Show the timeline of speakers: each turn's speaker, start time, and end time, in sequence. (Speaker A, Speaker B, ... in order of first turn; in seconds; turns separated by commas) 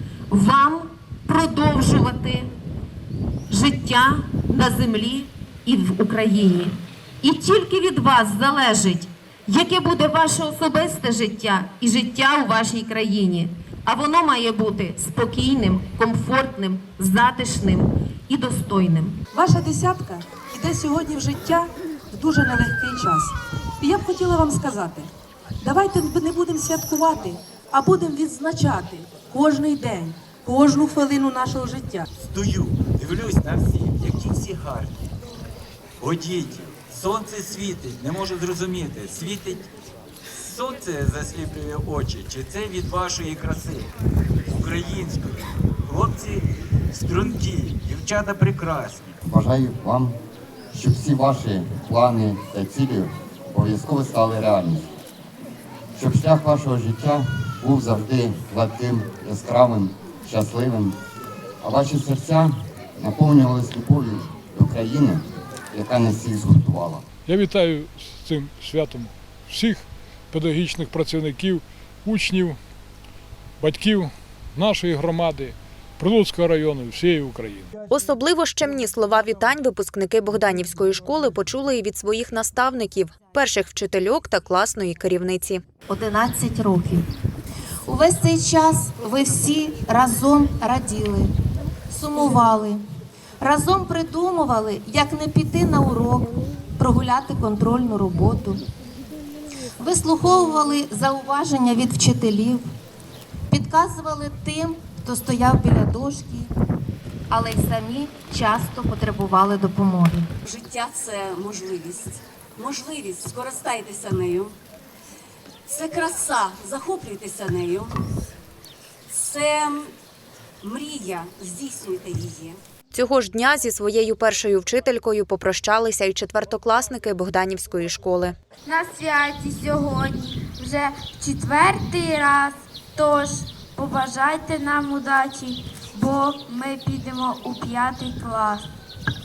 Speaker A: 0.3-2.5, Speaker A: 3.5-19.2, Speaker B: 19.4-25.1, Speaker B: 25.6-32.0, Speaker C: 32.3-34.9, Speaker C: 36.0-39.6, Speaker C: 40.4-43.9, Speaker C: 44.5-45.3, Speaker C: 45.9-46.4, Speaker C: 47.0-49.1, Speaker D: 49.2-50.2, Speaker D: 50.7-54.9, Speaker D: 56.0-61.0, Speaker D: 61.6-67.0, Speaker E: 67.2-72.6, Speaker E: 73.6-77.7, Speaker F: 77.9-85.6, Speaker G: 85.9-87.0, Speaker G: 87.9-91.3, Speaker G: 91.9-92.8, Speaker G: 93.4-96.3, Speaker G: 96.8-98.6, Speaker G: 99.8-102.6, Speaker G: 103.5-106.5, Speaker G: 107.3-110.2, Speaker H: 110.5-114.5, Speaker H: 115.7-117.9, Speaker H: 119.1-119.9, Speaker H: 120.6-122.6, Speaker F: 122.9-128.3, Speaker I: 128.6-138.7